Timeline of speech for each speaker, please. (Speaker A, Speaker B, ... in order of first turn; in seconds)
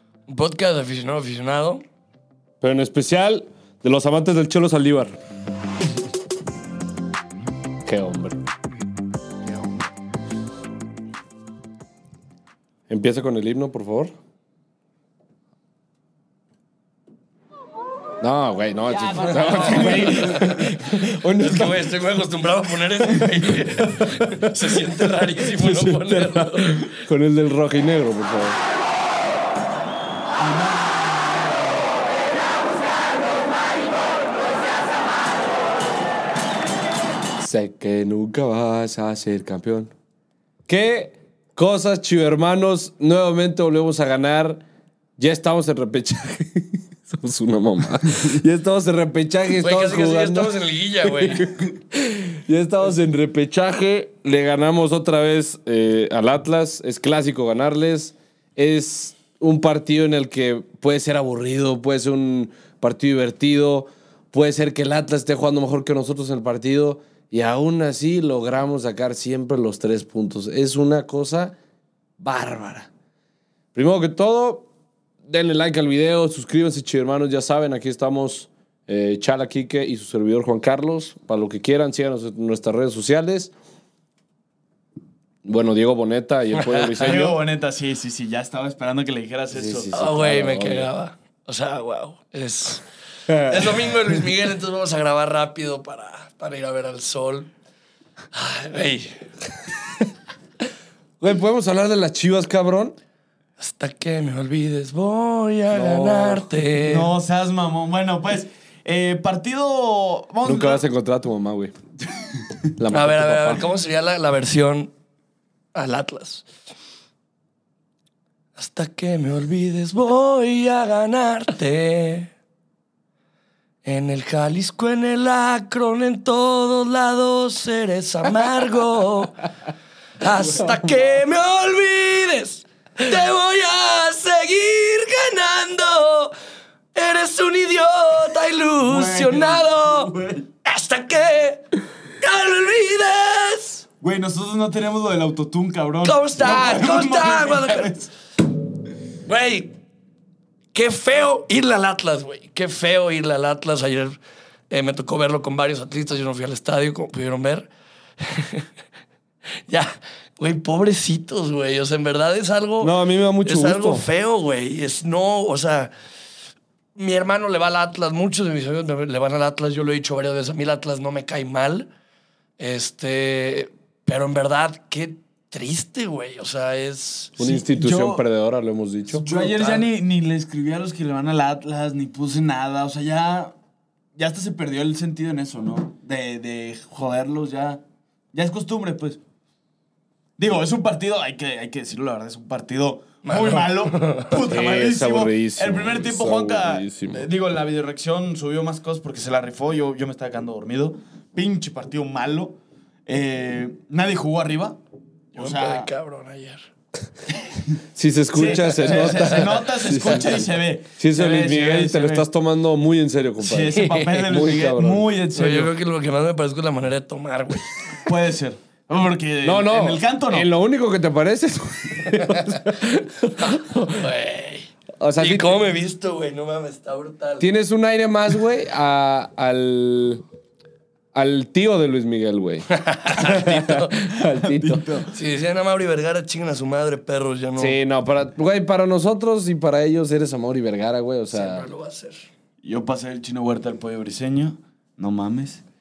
Speaker A: 0.3-1.8, 19.3-26.9, 49.6-51.5, 86.6-87.2, 89.9-97.5, 98.3-99.2, 103.6-107.1, 112.9-114.9, 115.7-116.5, 118.6-122.3, 123.8-129.4, 130.2-136.3, 136.9-140.1, 140.6-143.8, 146.0-147.9, 149.3-149.7, 150.7-154.2, 154.7-158.7, 159.7-165.9, 167.0-171.9, 172.6-177.3, 179.3-179.8, 193.2-194.4, 205.4-206.7, 208.7-209.5, 213.8-214.1, 215.3-217.8, 222.1-222.6, 223.4-227.5, 232.7-234.0, 235.1-237.8, 241.3-242.3
Speaker B: 2.6-5.2, 7.8-8.4, 12.9-14.1, 18.2-21.9, 24.2-25.0, 25.6-28.6, 37.4-39.9, 40.7-44.6, 45.2-71.5, 72.2-72.9, 73.8-74.7, 75.3-83.5, 85.4-87.4, 89.5-90.9, 93.3-93.6, 101.2-103.0, 105.7-106.5, 110.4-111.7, 112.8-113.7, 162.8-164.1, 177.4-179.3, 194.4-197.3, 207.9-215.1, 219.4-223.8, 225.0-225.6, 227.4-230.2, 231.1-235.0, 237.6-241.7
Speaker C: 19.7-20.4, 30.4-31.7, 87.0-89.9, 106.8-110.8, 138.8-140.5, 144.0-148.1, 177.4-178.2, 179.1-183.5, 184.2-187.8, 188.3-189.2, 190.4-204.8, 205.3-205.9, 208.3-212.3, 213.4-215.7, 218.1-220.5, 234.2-235.1, 242.6-245.6